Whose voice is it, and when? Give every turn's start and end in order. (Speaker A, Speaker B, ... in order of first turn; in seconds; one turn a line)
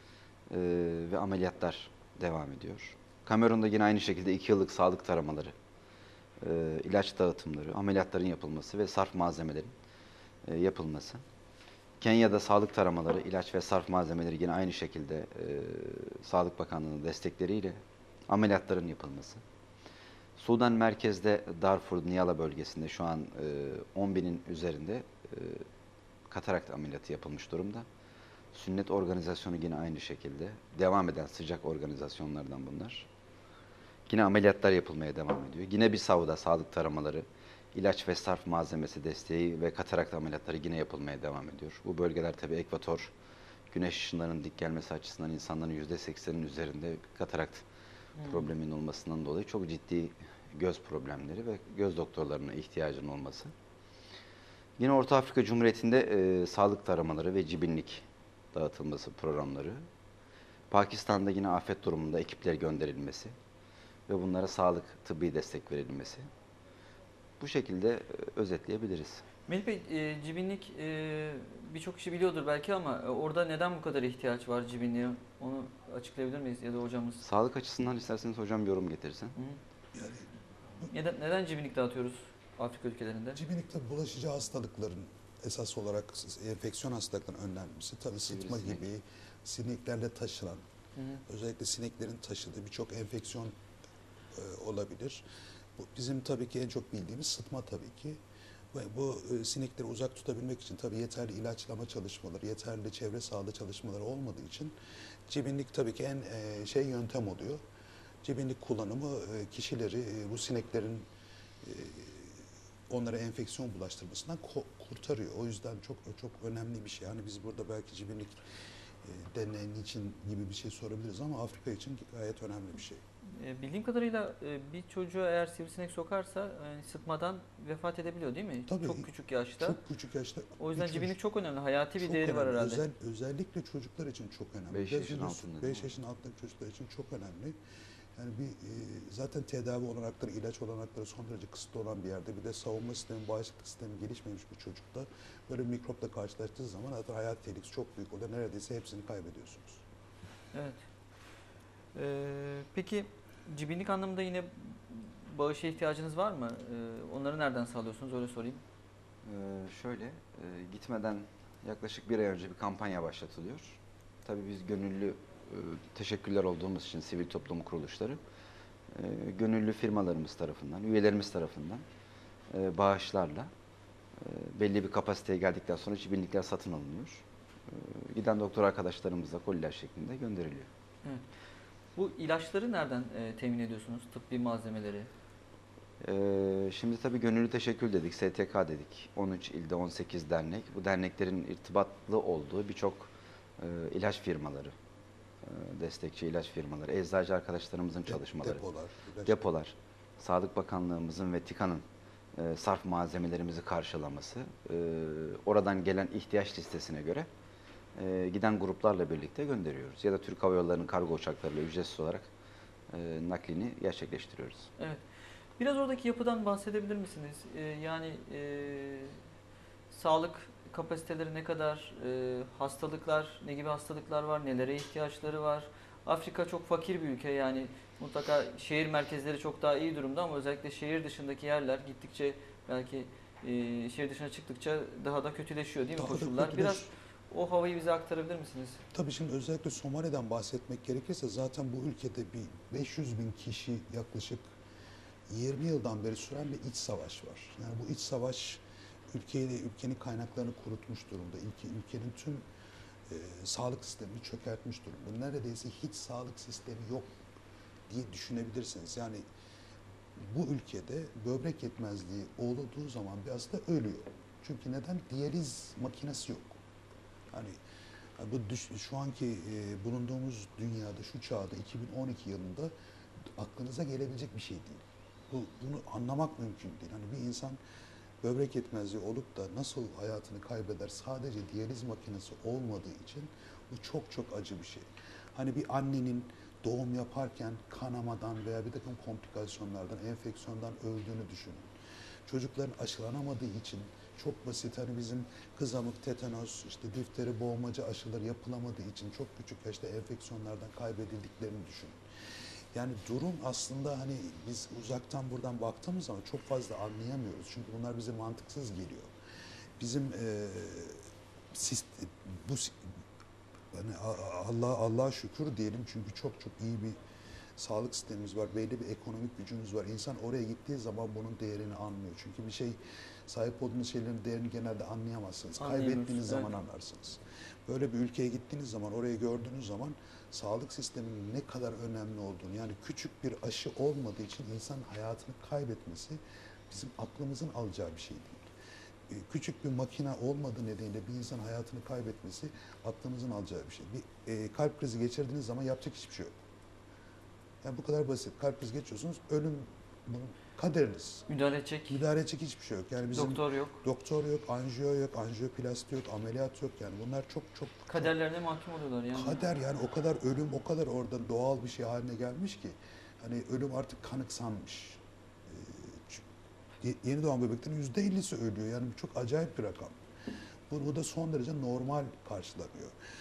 Speaker A: 0.5-5.5
Speaker A: 6.4-9.7
Speaker A: 10.5-11.2
Speaker A: 12.0-19.4
Speaker A: 20.4-25.7
Speaker A: 26.3-27.9
Speaker A: 28.5-33.1
Speaker A: 34.1-43.1
Speaker A: 43.7-47.6
Speaker B: 48.2-48.5
Speaker A: 48.3-53.5
Speaker A: 54.8-59.9
Speaker A: 60.7-63.3
Speaker A: 64.1-66.3
Speaker A: 67.4-69.2
Speaker B: 69.5-77.2
Speaker A: 77.2-79.4
Speaker C: 79.9-80.3
Speaker B: 80.9-83.4
Speaker C: 83.3-90.6
Speaker A: 88.3-88.8
Speaker B: 91.0-91.2
Speaker C: 91.3-93.5
Speaker C: 94.3-95.2
Speaker C: 95.8-98.2
Speaker C: 98.7-104.7
Speaker C: 105.3-107.6
Speaker C: 108.2-111.1
Speaker C: 111.6-118.4
Speaker C: 119.0-123.0
Speaker B: 123.4-129.8
Speaker C: 128.7-131.2
Speaker B: 130.6-132.8
Speaker C: 132.0-137.6
Speaker A: 134.7-135.9
Speaker C: 138.2-149.8
Speaker B: 150.5-150.8
Speaker B: 151.9-158.6
Speaker A: 159.2-168.2
Speaker A: 168.9-171.8
Speaker A: 172.5-173.5
Speaker A: 174.2-180.7
Speaker B: 182.0-185.1
Speaker A: 186.0-194.7
Speaker A: 195.4-198.6
Speaker C: 198.1-199.4
Speaker A: 199.3-201.8
Speaker A: 202.4-207.3
Speaker A: 208.0-212.3
Speaker A: 212.9-214.7
Speaker B: 215.6-219.2
Speaker B: 219.9-238.8
Speaker C: 236.0-236.9
Speaker C: 238.9-244.5
Speaker C: 245.3-252.4
Speaker C: 253.1-257.2
Speaker C: 257.9-259.2
Speaker C: 260.2-266.6
Speaker C: 267.3-267.6
Speaker C: 268.2-272.7
Speaker C: 273.3-277.6
Speaker C: 278.2-291.7
Speaker C: 292.3-302.0
Speaker C: 302.7-309.1
Speaker C: 309.8-312.9
Speaker C: 313.7-317.0
Speaker C: 317.6-338.5
Speaker B: 325.6-326.5
Speaker C: 339.1-346.4
Speaker C: 347.6-351.3
Speaker B: 351.3-352.0
Speaker C: 351.9-358.1
Speaker B: 353.1-353.8
Speaker B: 357.9-359.4
Speaker C: 359.1-366.2
Speaker C: 366.8-370.0
Speaker C: 370.7-372.9